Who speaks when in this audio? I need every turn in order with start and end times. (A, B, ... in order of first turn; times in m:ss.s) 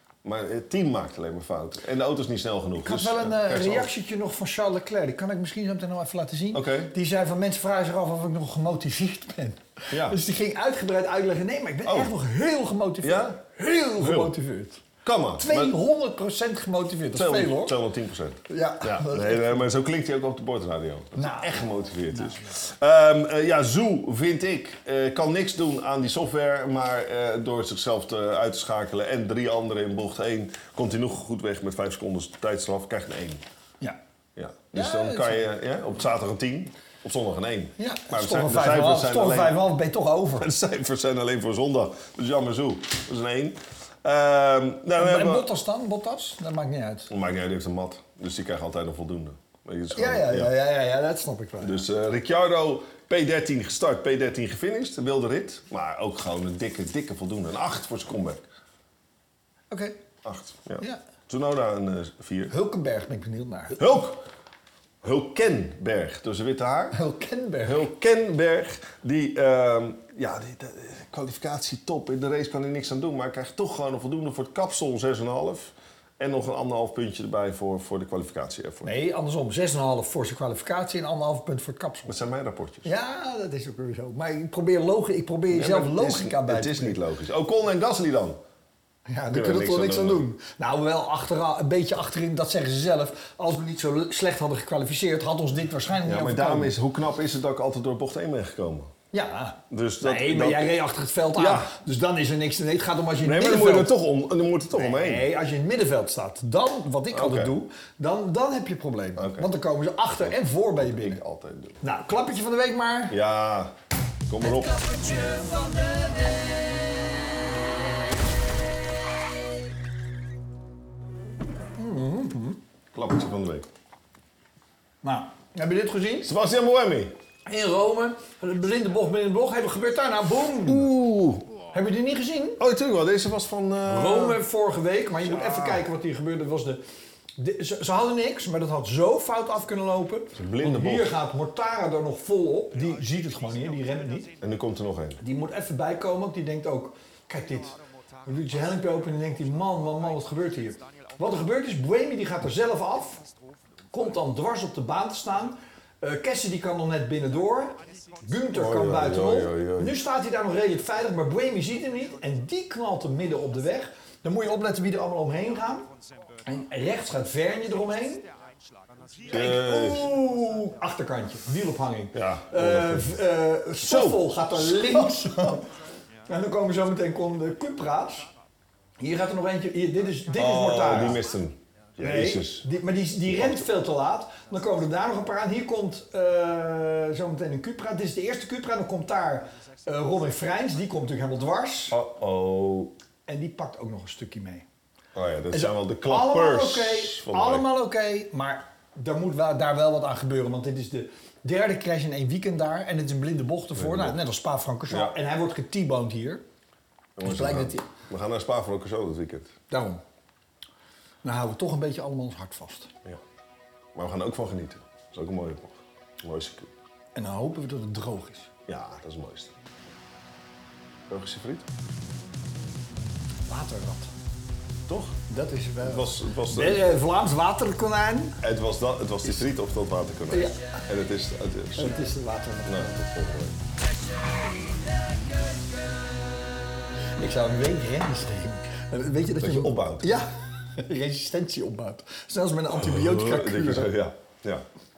0:00.2-0:03.9 A
0:02.8-0:14.8 B
0:06.5-0:06.9 A
0:09.9-0:10.2 A
0:11.8-0:12.1 A
0:13.0-0:13.4 A
0:14.0-0:14.3 A
0:15.0-0:15.8 A
0:15.4-0:17.8 B
0:17.1-0:33.4 A
0:18.5-0:19.6 B
0:21.2-0:21.6 B
0:34.4-0:39.6 A
0:34.7-0:35.5 B
0:37.8-0:40.5 B
0:40.4-0:45.5 A
0:45.0-0:47.1 B
0:47.1-0:50.5 A
0:49.9-0:51.8 B
0:51.6-0:58.5 A
0:59.7-1:00.0 B
1:00.2-1:02.5 A
1:02.5-1:03.8 B
1:03.8-1:04.2 A
1:05.0-1:07.0 A
1:06.9-1:07.9 B
1:07.6-1:18.9 A
1:18.8-1:22.2 B
1:22.1-1:22.9 A
1:22.8-1:27.0 B
1:25.5-1:28.4 A
1:29.1-1:36.7 B
1:29.3-1:30.2 A
1:36.0-1:38.9 A
1:39.1-1:43.9 B
1:39.7-1:40.7 A
1:41.4-1:41.7 A
1:43.2-1:45.3 A
1:44.8-1:51.2 B
1:47.1-1:47.5 A
1:49.2-1:49.5 A
1:50.2-1:51.8 A
1:51.8-1:53.2 B
1:53.1-1:53.8 A
1:54.3-1:54.9 A
1:54.5-1:56.6 B
2:01.8-2:02.6 B
2:02.9-2:03.7 A
2:05.0-2:06.3 B
2:06.2-2:07.2 A
2:07.5-2:10.9 B
2:10.6-2:11.6 A
2:11.7-2:12.6 B
2:12.6-2:14.4 A
2:13.8-2:16.8 B
2:15.4-2:15.8 A
2:17.4-2:24.3 B
2:20.3-2:21.1 A
2:24.4-2:25.2 A
2:25.2-2:27.8 B
2:28.3-2:33.2 B
2:33.9-2:45.9 B
2:38.5-2:40.0 A
2:46.5-2:48.2 B
2:49.3-2:55.6 B
2:49.3-2:50.1 A
2:52.1-2:53.2 A
2:53.8-2:55.5 A
2:56.3-2:58.3 B
2:59.0-3:01.2 B
3:00.4-3:02.7 A
3:02.0-3:12.0 B
3:03.2-3:03.7 A
3:11.9-3:13.0 A
3:13.3-3:14.7 B
3:15.1-3:17.7 A
3:15.5-3:26.4 B
3:23.8-3:24.2 A
3:24.9-3:25.2 A
3:27.2-3:29.5 A
3:27.2-3:27.9 B
3:29.7-3:30.0 B
3:31.2-3:32.9 B
3:34.0-3:36.7 A
3:37.2-3:38.5 B
3:38.7-3:39.5 A
3:41.1-3:41.7 A
3:43.5-3:44.1 B
3:44.9-3:45.2 A
3:45.3-3:48.4 B
3:45.8-3:46.9 A
3:48.4-3:52.0 A
3:50.3-3:50.6 B
3:51.8-3:53.0 B
3:52.6-3:53.6 A
3:57.2-4:03.9 B
3:59.4-4:00.2 A
4:02.7-4:04.7 A